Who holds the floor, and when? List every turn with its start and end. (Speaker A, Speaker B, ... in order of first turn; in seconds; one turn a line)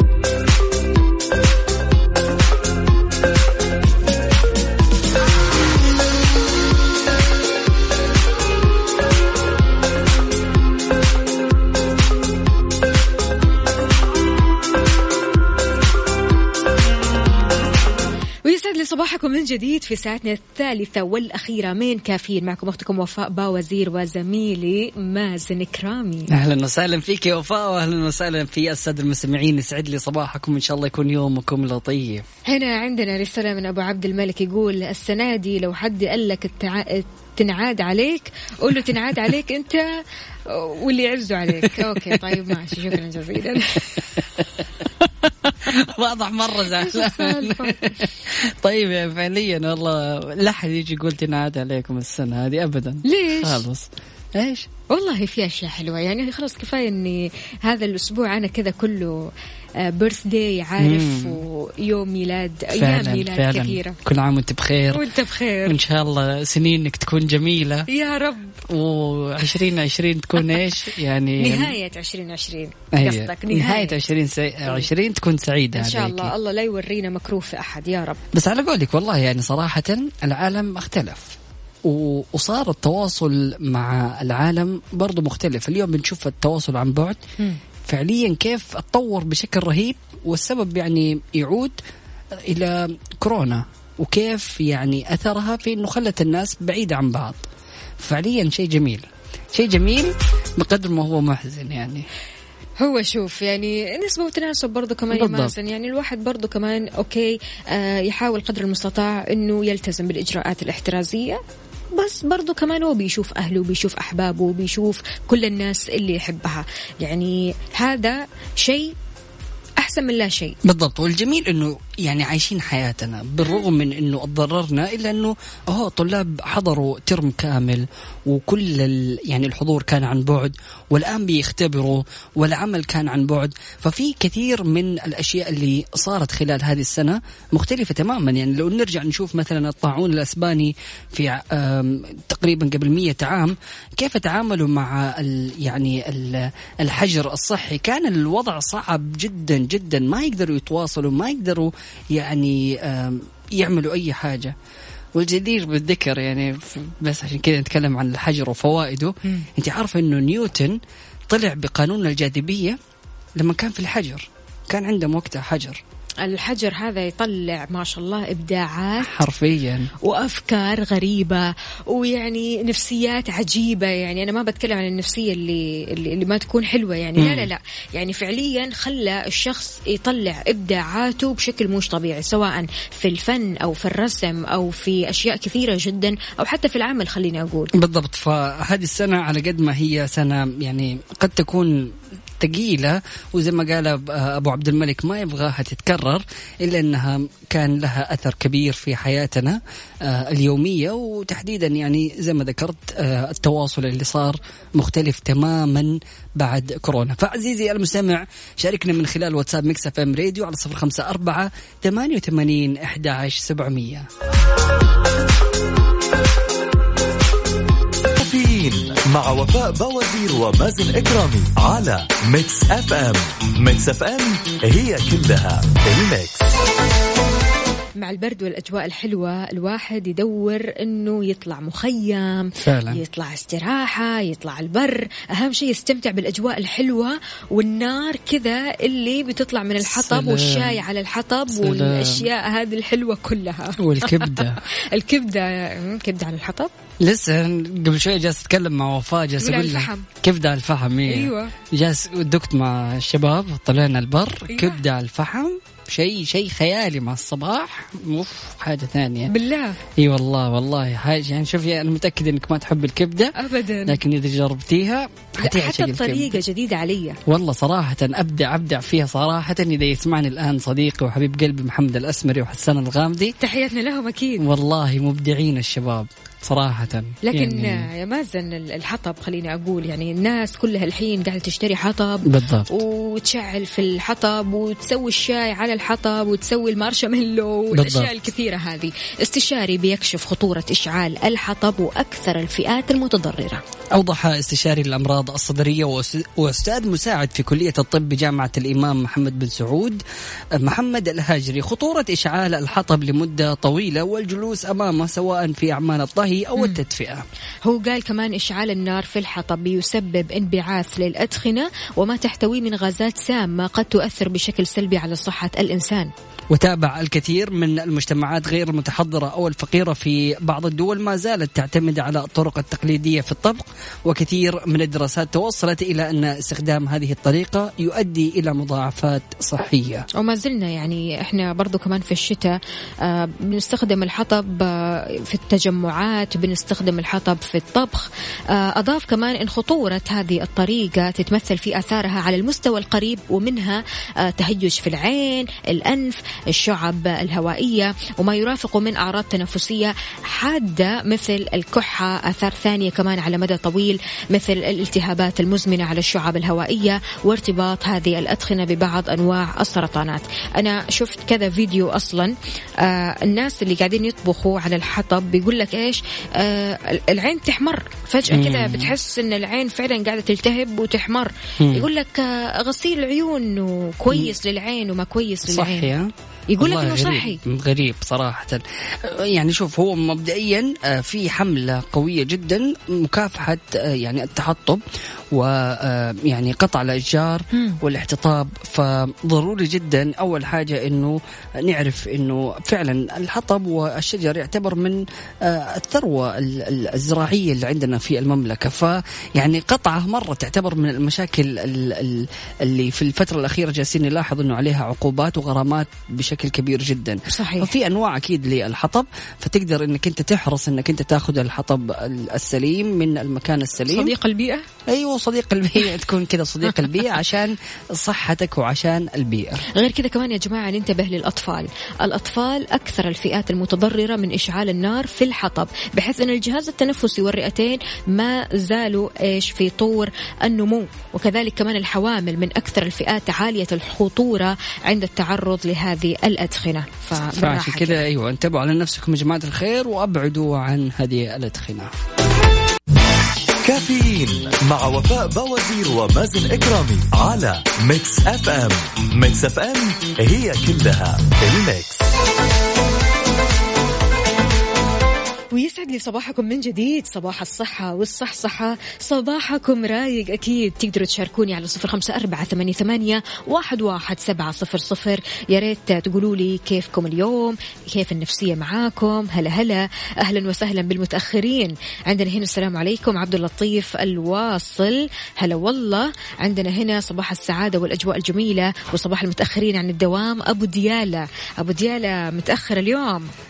Speaker A: 18.4-26.3
Speaker B: 26.3-32.3
Speaker A: 32.5-39.9
Speaker A: 40.5-44.1
Speaker B: 41.6-42.6
Speaker B: 44.0-54.7
Speaker A: 46.7-48.0
Speaker A: 53.0-53.6
Speaker A: 54.9-64.0
Speaker B: 60.8-61.4
Speaker B: 62.7-65.1
Speaker A: 64.9-65.8
Speaker B: 65.6-67.9
Speaker A: 67.9-68.6
Speaker B: 68.7-71.7
Speaker A: 71.4-74.0
Speaker B: 72.9-76.3
Speaker A: 75.7-78.2
Speaker B: 78.3-87.2
Speaker B: 87.8-91.8
Speaker B: 92.4-97.4
Speaker B: 98.0-102.1
Speaker A: 102.8-111.4
Speaker B: 105.1-105.5
Speaker A: 111.9-118.9
Speaker A: 119.8-120.6
Speaker B: 120.6-154.5
Speaker B: 155.1-160.8
Speaker B: 161.3-162.8
Speaker B: 163.4-165.8
Speaker A: 166.2-169.2
Speaker B: 169.0-169.9
Speaker A: 170.0-187.7
Speaker B: 177.2-177.5
Speaker B: 187.7-214.1
Speaker C: 218.2-226.5
Speaker A: 228.0-246.7
Speaker B: 232.6-233.0
Speaker B: 239.8-240.8
Speaker B: 241.5-242.3
Speaker B: 243.8-244.6
Speaker B: 247.0-259.3
Speaker A: 249.4-250.1
Speaker A: 251.1-251.5
Speaker A: 254.5-254.8
Speaker A: 259.3-259.8
Speaker B: 259.9-266.4
Speaker A: 263.4-264.0
Speaker A: 265.4-267.2
Speaker B: 267.2-273.4
Speaker A: 273.4-274.4
Speaker B: 274.4-277.9
Speaker A: 277.2-293.6
Speaker B: 282.3-282.7
Speaker B: 287.7-288.1
Speaker B: 293.9-300.0
Speaker B: 300.6-307.2
Speaker A: 307.6-316.1
Speaker B: 316.5-330.1
Speaker A: 330.1-375.9
Speaker B: 368.3-368.9
Speaker B: 371.6-371.9
Speaker B: 375.4-414.1
Speaker A: 376.5-377.4
Speaker A: 387.5-387.8
Speaker A: 407.3-407.7
Speaker A: 413.9-414.6
Speaker B: 414.9-419.6
Speaker A: 419.7-438.0
Speaker B: 437.2-441.9
Speaker C: 443.6-452.1
Speaker A: 455.5-483.3